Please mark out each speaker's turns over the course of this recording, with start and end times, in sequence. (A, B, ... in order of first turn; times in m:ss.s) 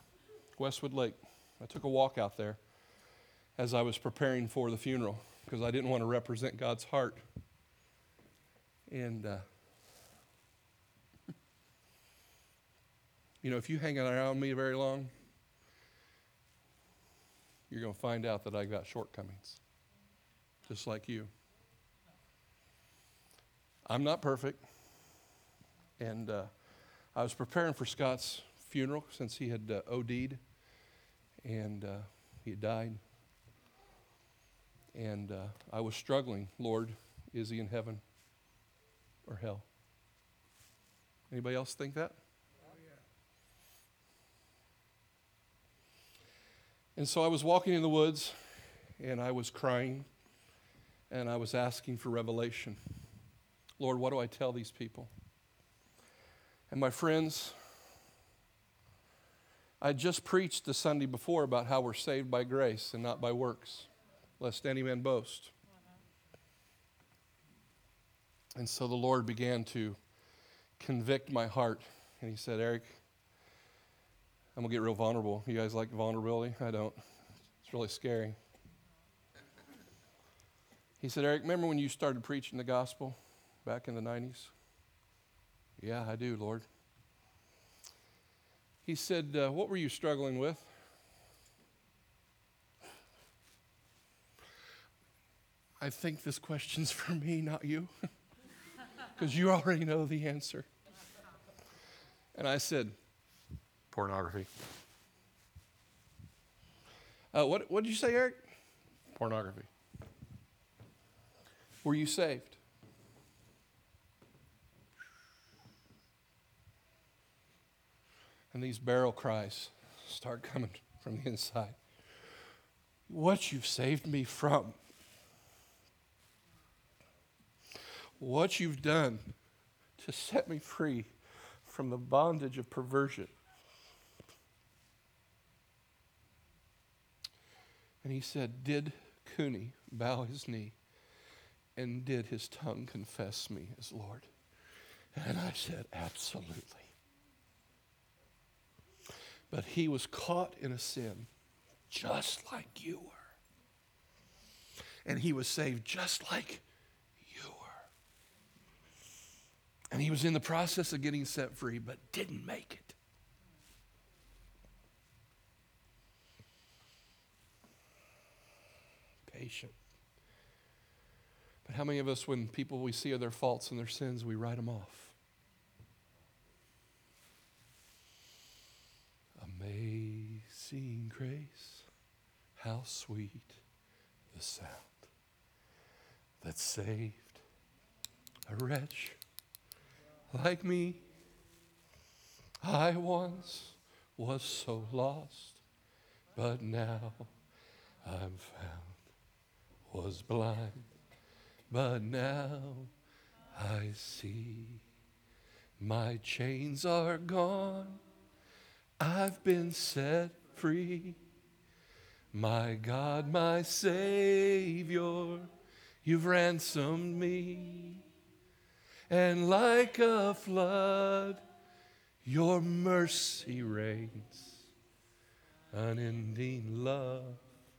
0:00.6-0:02.6 A
0:03.6-0:07.2 A
0:08.9-0:09.4 A
0:13.4-0:15.1 A
0:17.7-0:19.6 A
0:20.7-0:21.3 A
0:23.9-0:24.6 A
0:26.0-0:26.5 A
0:27.2-0:30.4 A
0:31.4-0:33.0 A
0:34.9-0:38.0 A
0:39.3-0:39.7 A
0:41.3-0:42.2 A
0:47.0-0:48.4 A
0:49.0-0:50.1 A
0:51.1-0:52.8 A
0:53.8-0:55.1 A
0:56.7-0:57.6 A
0:59.8-1:03.9 A
1:04.4-1:05.5 A
1:08.6-1:10.0 A
1:10.8-1:13.0 A
1:14.6-1:17.0 A
1:17.6-1:18.4 A
1:21.0-1:24.5 A
1:25.8-1:26.6 A
1:28.8-1:30.7 A
1:35.8-1:37.9 A
1:39.2-1:40.7 A
1:42.3-1:42.9 A
1:43.9-1:44.5 A
1:47.3-1:48.4 A
1:49.1-1:49.7 A
1:51.8-1:52.6 A
1:58.5-2:01.8 A
2:03.1-2:04.8 A
2:08.2-2:09.3 A
2:10.0-2:11.1 A
2:11.6-2:13.3 A
2:18.0-2:20.8 A
2:21.8-2:24.3 A
2:25.2-2:26.9 A
2:29.5-2:31.3 A
2:31.9-2:33.2 A
2:35.0-2:36.6 A
2:37.2-2:37.9 A
2:39.9-2:43.0 A
2:49.3-2:49.8 A
2:51.6-2:55.2 A
2:59.4-3:01.9 A
3:02.6-3:03.6 A
3:04.3-3:05.1 A
3:06.4-3:07.4 A
3:08.5-3:09.2 A
3:10.3-3:11.0 A
3:12.6-3:15.6 A
3:16.4-3:17.3 A
3:18.0-3:19.0 A
3:19.9-3:20.9 A
3:21.7-3:22.9 A
3:23.5-3:24.8 A
3:25.8-3:28.0 A
3:29.0-3:31.2 A
3:32.3-3:35.5 A
3:36.0-3:38.0 A
3:39.1-3:41.4 A
3:42.2-3:44.6 A
3:45.7-3:47.4 A